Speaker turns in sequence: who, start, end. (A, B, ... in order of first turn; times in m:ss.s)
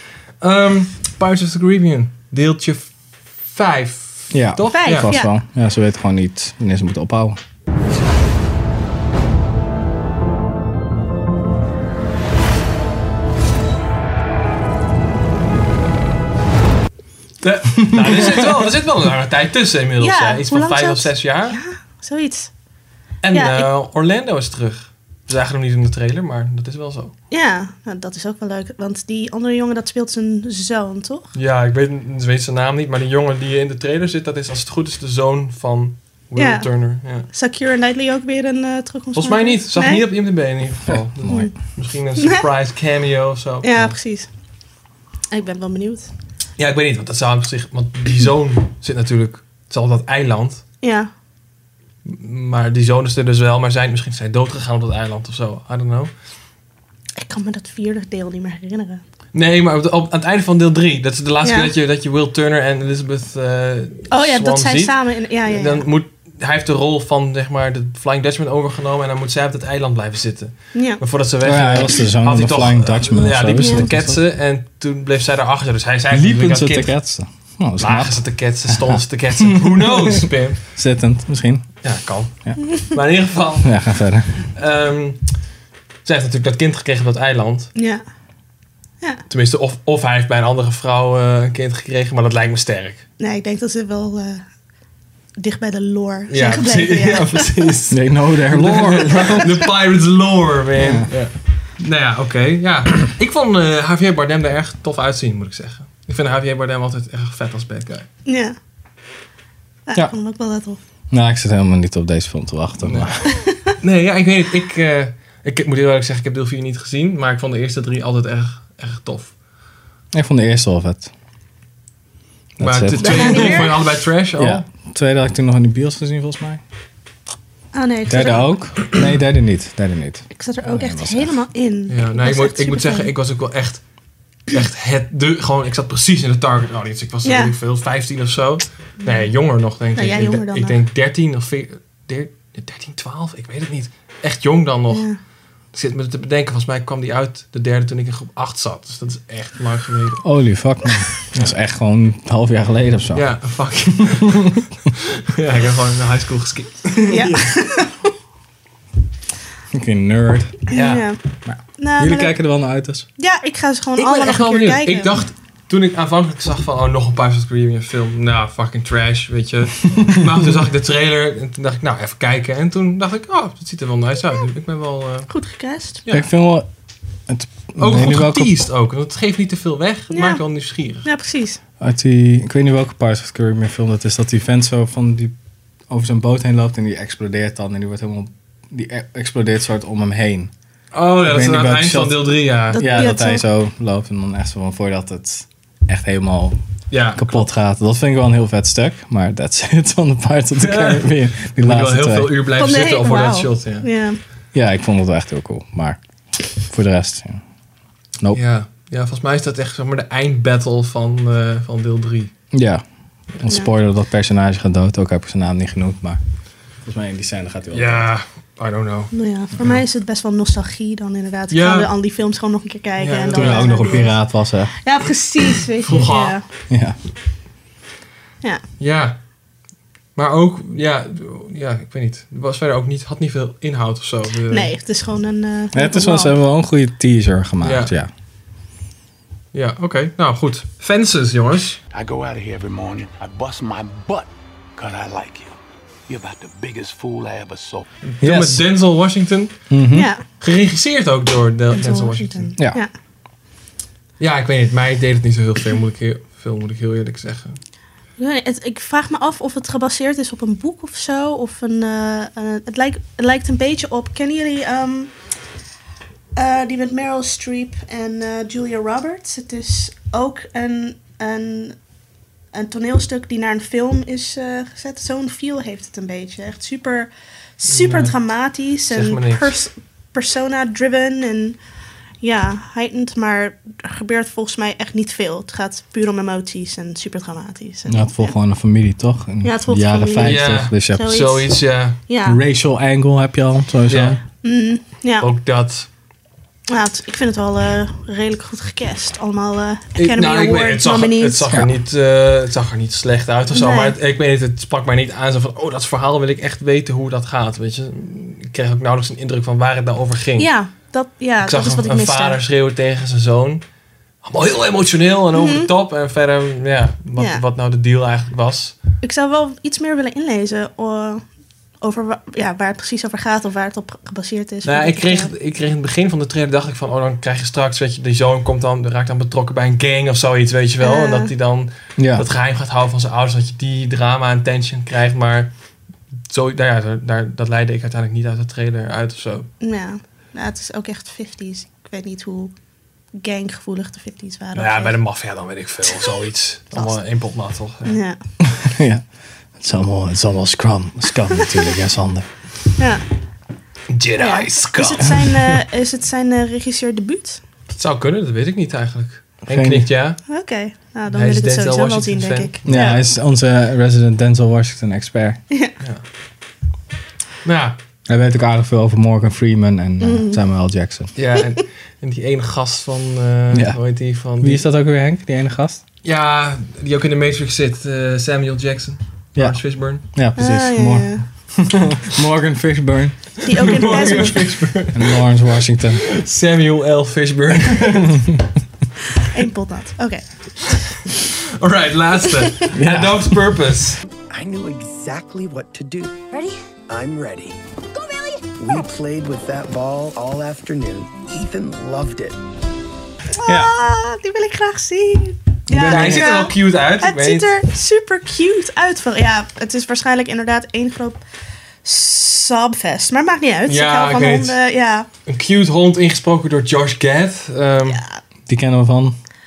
0:00.4-0:05.1 A
0:04.3-0:07.4 B
0:04.7-0:05.3 C
0:17.4-0:21.6 A
0:18.0-0:18.3 B
0:20.0-0:22.5 C
0:23.2-0:27.1 A
0:23.3-0:23.7 C
0:27.3-0:31.3 C
0:31.3-0:37.2 A
0:36.4-0:40.1 C
0:39.1-0:43.9 A
0:41.2-0:41.5 B
0:41.3-0:41.5 C
0:42.2-0:42.5 C
0:43.6-0:44.3 C
0:45.3-0:46.1 C
0:46.6-0:50.6 A
0:50.8-0:51.1 C
0:52.0-0:56.1 A
0:57.2-0:59.0 C
0:59.3-1:16.9 A
1:01.4-1:01.7 C
1:04.1-1:05.8 C
1:10.7-1:11.0 C
1:11.4-1:14.2 B
1:13.6-1:13.9 C
1:16.1-1:21.8 B
1:17.8-1:20.6 A
1:21.8-1:23.9 A
1:23.6-1:24.4 B
1:24.5-1:25.3 A
1:26.0-1:27.7 A
1:27.7-1:28.0 C
1:29.3-1:33.0 A
1:33.2-1:34.4 C
1:35.4-1:37.4 C
1:36.3-1:48.1 A
1:37.9-1:39.6 B
1:40.8-1:41.1 B
1:48.2-1:48.5 C
1:49.9-1:50.8 C
1:51.1-1:53.3 B
1:52.8-1:53.3 A
1:53.8-1:59.3 A
2:00.1-2:01.1 B
2:02.6-2:03.7 B
2:02.6-2:04.6 A
2:03.0-2:03.8 C
2:04.4-2:06.6 B
2:07.7-2:08.4 C
2:08.1-2:11.4 B
2:10.3-2:13.1 C
2:11.9-2:13.8 A
2:14.5-2:25.1 A
2:17.2-2:17.5 C
2:19.9-2:20.8 C
2:24.9-2:25.2 C
2:25.7-2:30.2 A
2:30.2-2:33.3 B
2:33.1-2:37.4 A
2:37.1-2:37.9 C
2:39.7-2:40.6 B
2:40.7-2:41.0 A
2:40.7-2:41.2 C
2:41.4-2:43.0 B
2:41.8-2:42.3 C
2:43.2-2:45.1 C
2:44.0-2:55.3 A
2:55.3-2:56.0 C
2:56.1-2:56.7 B
2:57.3-2:58.5 B
2:57.8-3:01.1 A
3:00.1-3:00.4 C
3:01.0-3:01.6 C
3:01.8-3:05.3 B
3:05.9-3:10.5 B
3:10.9-3:13.1 A
3:11.2-3:16.6 B
3:12.7-3:13.4 C
3:16.9-3:17.5 A
3:17.1-3:22.3 B
3:20.6-3:23.9 A
3:22.6-3:24.2 C
3:24.5-3:26.0 B
3:26.6-3:27.4 B
3:28.3-3:32.3 A
3:32.5-3:36.2 B
3:36.8-3:38.1 B
3:37.7-3:39.8 A
3:39.1-3:44.2 C
3:41.5-3:41.9 A
3:43.0-3:44.1 A
3:43.3-3:44.7 B
3:44.8-3:46.4 C
3:45.8-3:46.4 A
3:46.7-3:47.0 B
3:48.8-3:49.2 A
3:50.2-3:54.7 A
3:54.5-3:56.3 C
3:55.7-3:58.1 B
3:57.6-3:57.9 A
3:59.5-4:01.8 A
4:01.9-4:07.8 D
4:08.0-4:09.7 A
4:08.2-4:08.6 B
4:09.7-4:10.1 B
4:09.9-4:10.2 C
4:10.4-4:12.6 A
4:11.7-4:12.9 C
4:14.2-4:17.6 A
4:18.2-4:25.0 C
4:26.4-4:31.8 C
4:32.5-4:41.6 C
4:37.7-4:38.1 A
4:38.9-4:39.5 A
4:42.2-4:48.3 C
4:47.9-4:51.3 B
4:49.4-4:51.4 C
4:50.2-4:52.0 A
4:52.1-4:52.4 C
4:52.2-4:54.2 B
4:53.9-4:54.2 A
4:54.4-4:55.3 C
4:55.2-4:55.9 A
4:56.7-5:01.4 C
5:00.0-5:10.5 A
5:03.5-5:04.0 C
5:10.4-5:12.4 C
5:11.4-5:13.6 A
5:14.2-5:18.8 A
5:15.3-5:15.7 C
5:17.2-5:17.4 C
5:19.0-5:21.2 C
5:21.8-5:25.3 C
5:24.6-5:35.5 A
5:30.8-5:31.3 C
5:32.0-5:32.2 B
5:36.3-5:39.5 A
5:39.6-5:42.5 C
5:43.2-5:45.0 C
5:44.5-5:48.0 A
5:47.8-5:48.2 C
5:48.4-5:49.0 B
5:49.6-5:52.3 B
5:52.8-5:53.0 C
5:53.9-5:55.2 A
5:54.2-5:57.4 C
5:57.7-6:00.2 A
5:59.5-5:59.9 B
6:00.3-6:03.0 C
6:01.1-6:02.6 A
6:02.6-6:05.4 B
6:07.4-6:07.8 A
6:08.1-6:11.1 B
6:10.0-6:10.4 C
6:11.1-6:14.6 A
6:13.5-6:13.8 B
6:14.3-6:15.8 B
6:16.0-6:20.0 A
6:19.4-6:24.4 B
6:20.4-6:21.2 C
6:23.4-6:24.4 C
6:23.6-6:25.2 A
6:24.9-6:26.0 B
6:26.0-6:28.2 A
6:29.3-6:30.2 C
6:31.1-6:34.0 A
6:32.7-6:33.3 B
6:34.3-6:36.2 E
6:36.9-6:37.6 E
6:38.6-6:42.4 E
6:43.4-6:51.2 C
6:43.4-6:43.7 B
6:45.7-6:46.4 B
6:45.8-6:47.5 A
6:51.8-6:55.1 C
6:53.6-6:54.6 A
6:55.2-6:58.0 A
6:57.9-6:58.2 C
6:58.5-6:59.1 B